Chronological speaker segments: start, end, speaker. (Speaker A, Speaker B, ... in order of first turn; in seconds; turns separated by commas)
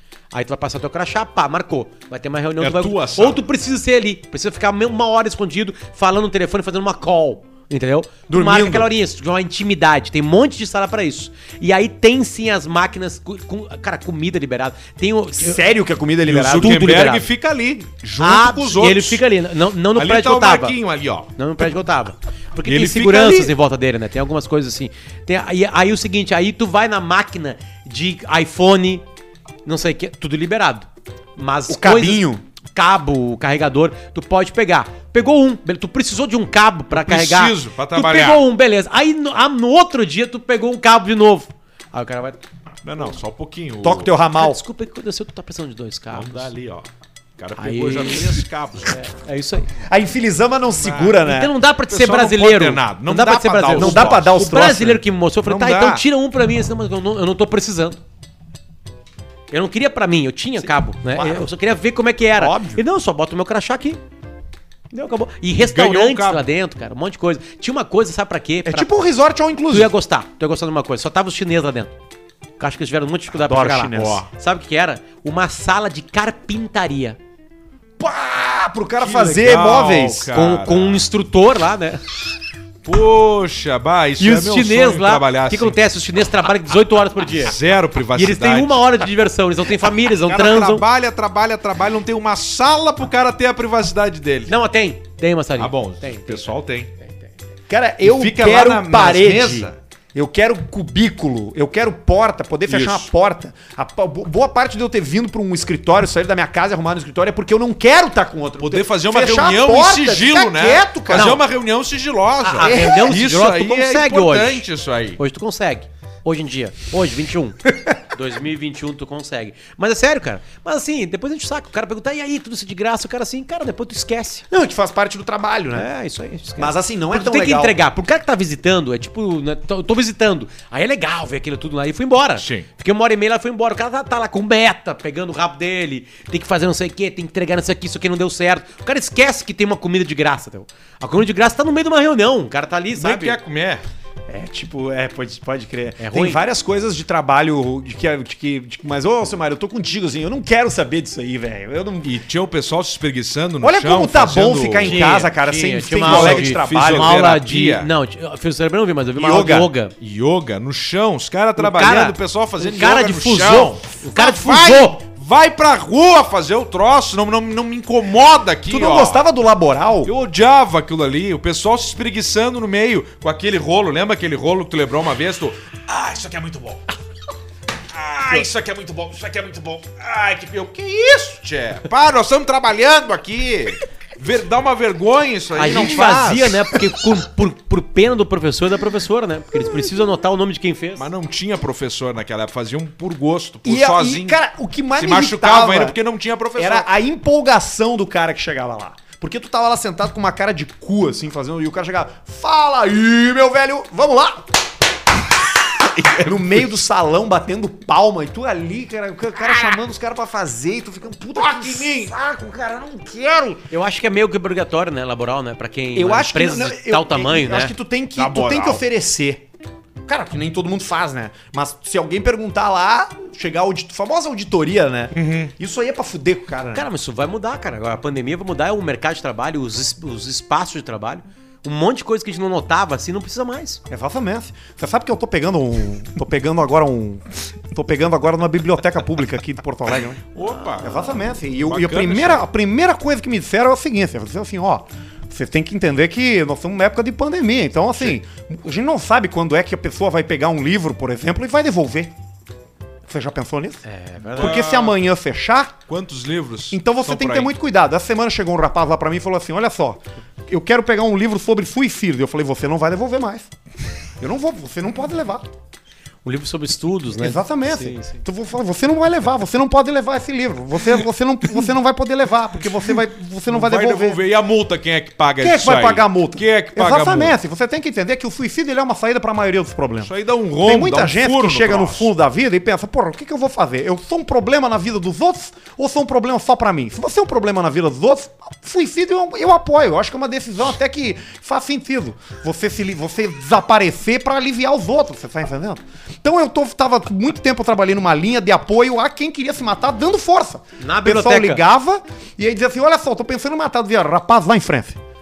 Speaker A: 0.3-15.6, Speaker B: 2.6-3.4, Speaker C: 8.3-8.9, Speaker C: 15.3-17.1, Speaker B: 16.2-19.2, Speaker A: 16.5-17.3, Speaker A: 18.2-20.8, Speaker B: 19.9-21.3, Speaker A: 21.4-29.0, Speaker B: 22.6-23.5, Speaker A: 29.6-42.4, Speaker C: 31.7-32.4, Speaker B: 36.9-38.4, Speaker B: 42.8-44.1, Speaker C: 43.8-44.6, Speaker A: 44.4-46.5, Speaker B: 46.1-46.9, Speaker B: 47.4-49.0, Speaker A: 47.6-49.7, Speaker C: 49.8-51.5, Speaker B: 50.8-51.2, Speaker A: 51.2-58.0, Speaker B: 51.8-54.3, Speaker C: 53.7-55.0, Speaker B: 55.4-56.0, Speaker A: 59.5-64.0, Speaker C: 60.6-61.5, Speaker C: 62.4-62.8, Speaker A: 64.9-68.9, Speaker B: 65.6-66.4, Speaker C: 68.6-69.9, Speaker A: 69.7-71.9, Speaker A: 72.6-77.2, Speaker C: 73.3-74.2, Speaker B: 73.9-74.3, Speaker C: 78.0-80.3, Speaker B: 79.0-81.0, Speaker A: 80.3-82.0, Speaker B: 82.8-85.8, Speaker A: 84.2-87.6, Speaker B: 87.4-88.8, Speaker A: 88.2-90.8, Speaker B: 89.8-94.5, Speaker A: 94.5-97.3, Speaker B: 95.6-96.9, Speaker C: 97.7-111.4, Speaker B: 98.0-99.7, Speaker B: 102.7-103.1, Speaker B: 108.6-115.2, Speaker A: 111.1-111.4, Speaker A: 112.4-114.6, Speaker C: 112.5-113.2, Speaker A: 115.2-124.4, Speaker C: 124.5-125.9, Speaker A: 125.7-143.4, Speaker C: 126.6-127.8, Speaker B: 132.4-132.7, Speaker B: 142.9-143.8, Speaker C: 144.3-152.1, Speaker A: 146.0-146.4, Speaker B: 152.0-155.0, Speaker C: 153.6-157.1, Speaker A: 154.8-159.9, Speaker B: 156.0-157.9, Speaker C: 159.2-159.7, Speaker B: 160.0-169.2, Speaker A: 161.6-165.0, Speaker C: 168.7-170.1, Speaker B: 170.0-176.8, Speaker B: 177.9-186.8, Speaker A: 185.6-191.1, Speaker C: 185.7-186.0, Speaker B: 191.0-194.4, Speaker C: 193.6-195.9, Speaker B: 195.0-196.9, Speaker C: 196.6-204.5, Speaker B: 205.8-206.6, Speaker C: 206.2-213.6, Speaker B: 211.4-212.1, Speaker A: 213.7-217.7, Speaker C: 215.9-219.4, Speaker B: 218.2-218.8, Speaker C: 220.0-226.9, Speaker B: 225.1-225.5, Speaker A: 226.7-233.8, Speaker C: 233.9-240.2, Speaker B: 240.3-242.4, Speaker C: 240.8-252.1, Speaker C: 253.1-253.8, Speaker A: 253.8-254.6, Speaker C: 254.3-255.8, Speaker B: 254.3-255.0, Speaker B: 255.9-257.5, Speaker C: 256.7-263.5, Speaker C: 264.2-265.4, Speaker A: 266.2-268.2, Speaker C: 267.2-274.2, Speaker B: 273.5-277.4, Speaker C: 275.4-280.1, Speaker B: 280.0-282.1, Speaker C: 280.6-305.0, Speaker A: 300.8-301.6